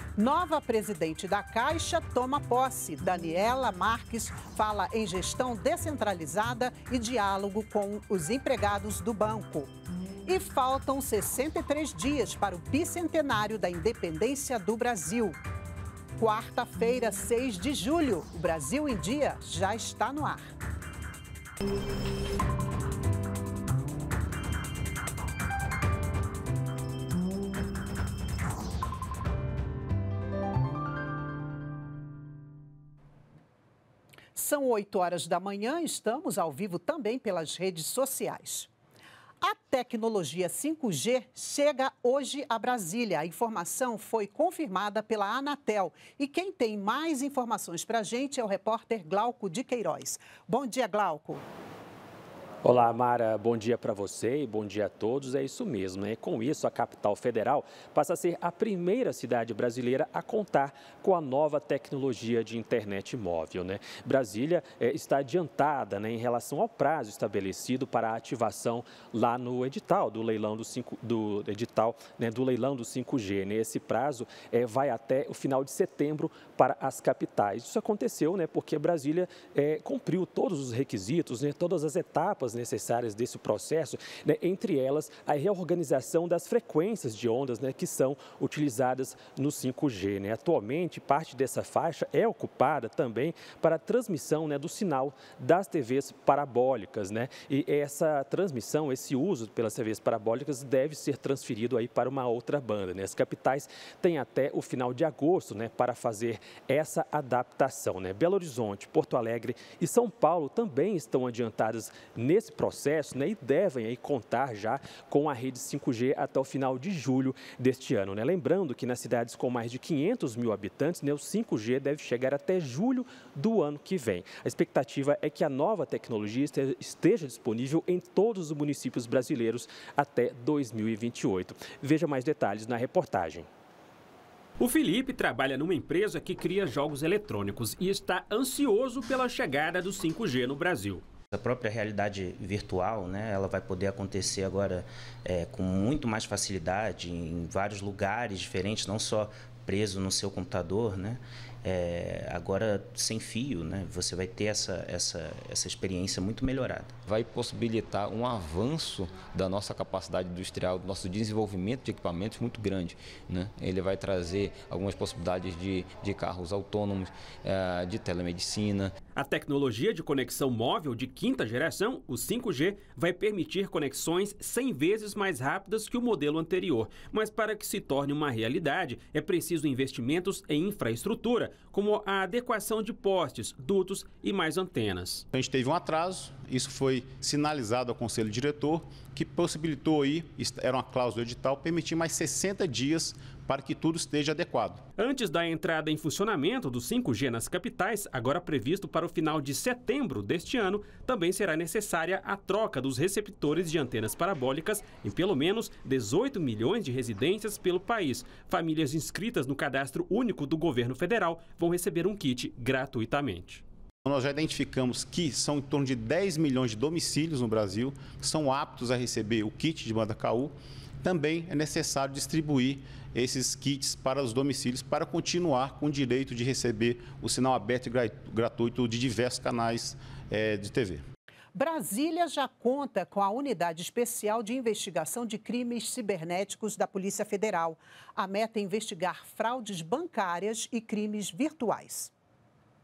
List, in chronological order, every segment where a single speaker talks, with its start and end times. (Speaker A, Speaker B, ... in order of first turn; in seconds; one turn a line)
Speaker A: 0.2-9.7
Speaker A: 10.2-15.4
Speaker A: 16.2-20.5
Speaker A: 34.3-38.7
Speaker A: 39.4-51.4
Speaker B: 52.6-133.5
Speaker C: 134.6-140.9
Speaker D: 141.3-156.9
Speaker E: 157.0-168.9
Speaker C: 169.2-185.2
Speaker F: 185.3-194.8
Speaker C: 195.0-213.4
Speaker F: 214.1-231.0
Speaker A: 231.5-242.1